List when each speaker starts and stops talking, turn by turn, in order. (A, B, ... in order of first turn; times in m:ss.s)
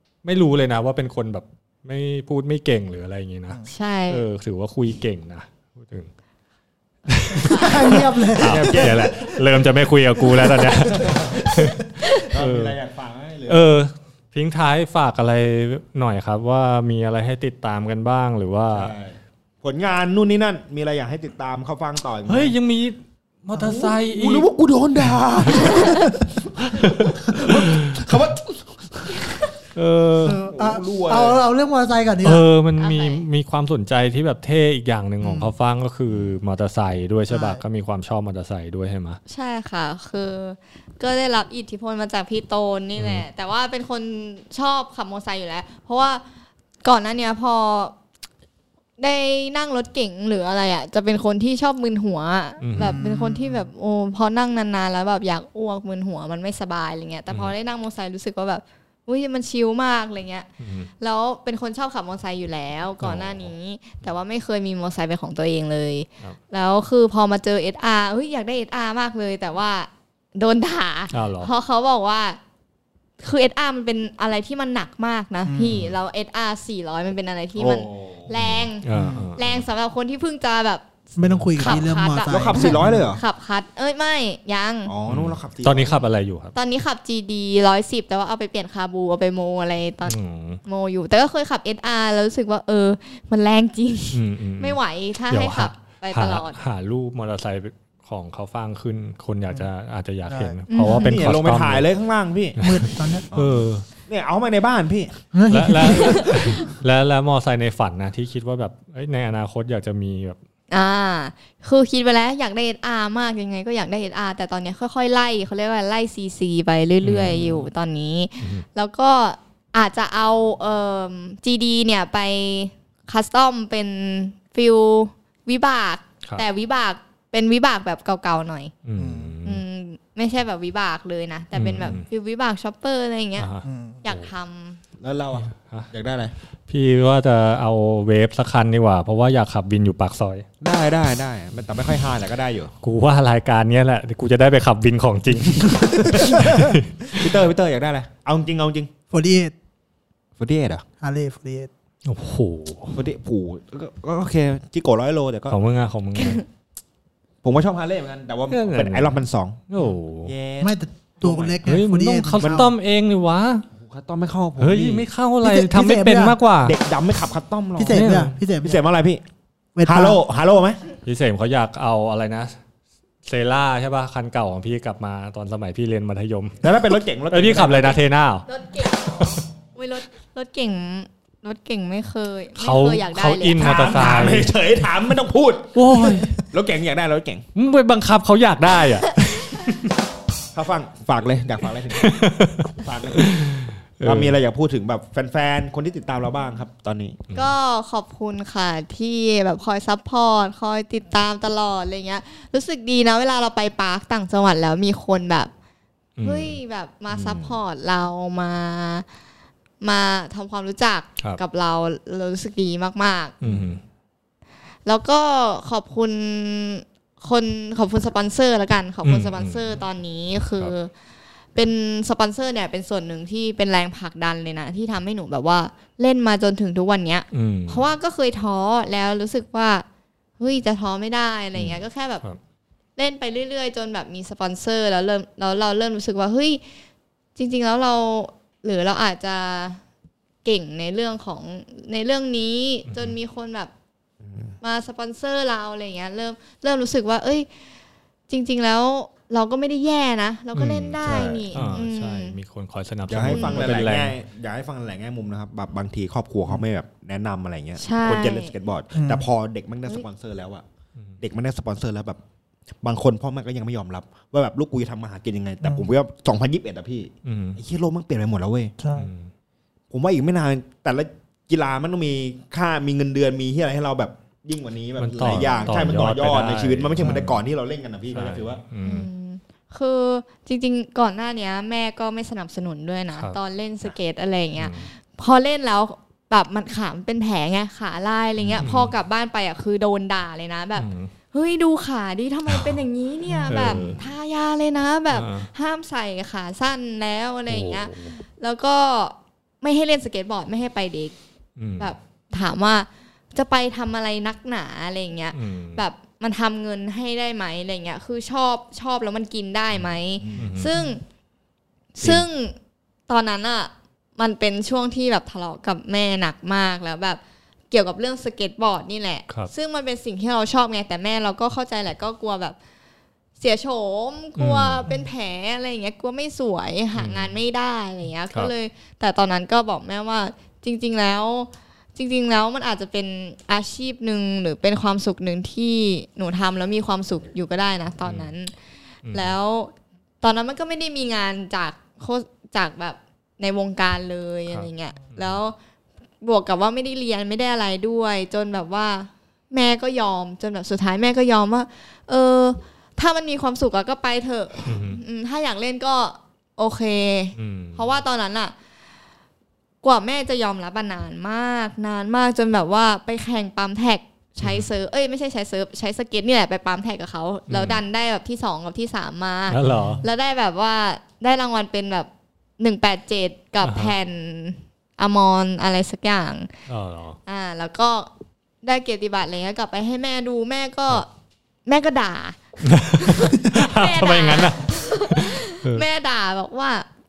0:00.2-0:06.1 A
0:03.7-0:04.2 B
0:07.1-0:12.8 A
0:07.5-0:09.1 C
0:08.4-0:09.2 D
0:10.9-0:11.6 D
0:12.2-0:13.7 D
0:13.5-0:18.9 A
0:18.7-0:22.5 D
0:22.3-0:24.5 A
0:23.5-0:23.9 C
0:23.6-0:29.3 D
0:25.0-0:25.8 A
0:26.7-0:28.1 A
0:29.7-0:30.4 A
0:30.2-0:32.5 C
0:30.3-0:31.4 D
0:32.2-0:39.2 A
0:32.8-0:33.2 B
0:35.2-0:35.5 C
0:37.3-0:37.6 C
0:39.3-0:46.2 B
0:43.0-0:43.2 A
0:46.8-0:47.9 B
0:49.0-1:00.5 B
0:52.6-0:53.0 A
0:52.8-0:53.7 C
1:00.6-1:00.9 A
1:01.0-1:12.4 B
1:03.0-1:03.5 A
1:11.1-1:11.5 A
1:13.2-1:20.8 B
1:15.4-1:15.8 C
1:15.7-1:15.9 A
1:17.6-1:18.3 D
1:18.4-1:19.6 A
1:18.9-1:19.3 D
1:21.2-1:23.2 C
1:21.2-1:21.8 A
1:21.6-1:24.9 B
1:22.3-1:23.2 D
1:24.8-1:26.0 D
1:25.1-1:26.5 A
1:26.5-1:36.6 B
1:30.0-1:30.6 A
1:34.1-1:34.8 A
1:35.3-1:41.9 A
1:40.3-1:40.6 C
1:40.7-1:41.2 B
1:41.0-1:42.6 D
1:42.6-1:43.2 C
1:42.6-1:43.8 A
1:43.3-1:45.2 D
1:45.3-1:46.5 C
1:45.5-1:50.4 A
1:45.8-1:46.3 D
1:50.7-2:08.7 B
1:57.0-1:57.6 A
1:58.4-1:58.6 A
2:08.8-2:09.6 A
2:09.0-2:09.4 C
2:09.4-2:13.5 B
2:11.5-2:12.0 A
2:13.4-2:14.3 A
2:13.6-2:14.0 C
2:14.0-2:14.8 B
2:15.0-2:16.3 D
2:15.4-2:15.9 A
2:16.7-2:20.4 A
2:20.6-2:22.7 D
2:22.8-2:27.3 A
2:25.9-2:26.6 D
2:26.2-2:26.6 C
2:27.1-2:28.9 D
2:29.1-2:29.5 C
2:30.4-2:30.8 D
2:31.0-2:31.7 C
2:32.0-2:33.0 A
2:32.9-2:35.6 D
2:35.5-2:36.4 A
2:37.4-2:41.6 D
2:38.5-2:40.3 A
2:40.6-2:42.7 C
2:41.6-2:43.6 A
2:42.4-2:42.7 D
2:43.8-2:45.0 D
2:44.6-2:46.8 A
2:45.4-2:46.4 C
2:46.6-2:49.2 D
2:47.8-2:48.8 C
2:47.9-2:48.3 A
2:49.8-2:50.2 C
2:49.8-2:50.8 D
2:51.0-2:52.5 A
2:53.2-2:58.5 A
2:56.6-2:58.0 D
2:58.5-3:04.4 B
3:02.6-3:04.5 A
3:03.6-3:05.7 D
3:05.7-3:06.4 A
3:06.4-3:07.4 D
3:07.5-3:09.9 A
3:10.5-3:17.2 D
3:12.0-3:14.4 A
3:17.3-3:25.5 B
3:26.2-3:26.6 A
3:26.2-3:29.0 B
3:27.1-3:27.6 D
3:29.8-3:33.4 B
3:33.4-3:33.8 A
3:34.8-3:40.9 B
3:39.0-3:39.7 A
3:41.5-3:49.8 B
3:47.3-3:47.9 A
3:50.4-3:52.2 B
3:51.6-3:52.4 A
3:53.0-3:56.6 B
3:57.4-3:59.8 B
4:00.4-4:03.7 B
4:02.9-4:03.1 A
4:04.2-4:04.5 D
4:04.6-4:07.5 B
4:08.3-4:12.4 B
4:10.6-4:11.0 A
4:11.0-4:11.5 D
4:11.5-4:14.1 A
4:13.1-4:20.6 D
4:13.3-4:13.6 B
4:17.8-4:18.5 B
4:18.9-4:19.2 C
4:21.2-4:22.2 D
4:22.8-4:28.7 D
4:27.2-4:27.6 A
4:28.8-4:29.1 C
4:28.9-4:29.2 A
4:29.9-4:38.6 D
4:35.0-4:37.4 A
4:35.4-4:35.7 B
4:38.1-4:39.1 A
4:38.8-5:01.1 B
4:44.6-4:44.9 A
4:48.6-4:48.9 A
4:50.8-4:51.1 A
4:52.5-4:52.8 A
4:53.4-4:54.0 A
4:55.1-4:55.5 A
4:57.5-4:58.2 A
5:01.6-5:01.9 A
5:01.8-5:11.0 B
5:05.3-5:05.8 A
5:10.2-5:10.5 D
5:10.4-5:10.7 A
5:11.9-5:12.6 B
5:13.1-5:17.2 B
5:17.7-5:22.6 B
5:23.4-5:38.5 B
5:24.4-5:24.9 A
5:26.9-5:27.3 A
5:38.0-5:38.3 A
5:39.0-5:39.4 A
5:39.1-5:45.6 B
5:44.5-5:45.4 A
5:46.2-5:58.5 B
5:54.6-5:55.0 A
5:57.4-5:57.8 A
5:59.8-6:12.1 B
6:07.5-6:07.8 A
6:09.5-6:10.0 A
6:09.6-6:10.0 C
6:12.6-6:16.5 B
6:13.6-6:13.9 A
6:16.7-6:17.2 A
6:17.2-6:18.1 B
6:18.6-6:21.1 B
6:21.6-6:26.9 B
6:22.7-6:25.8 A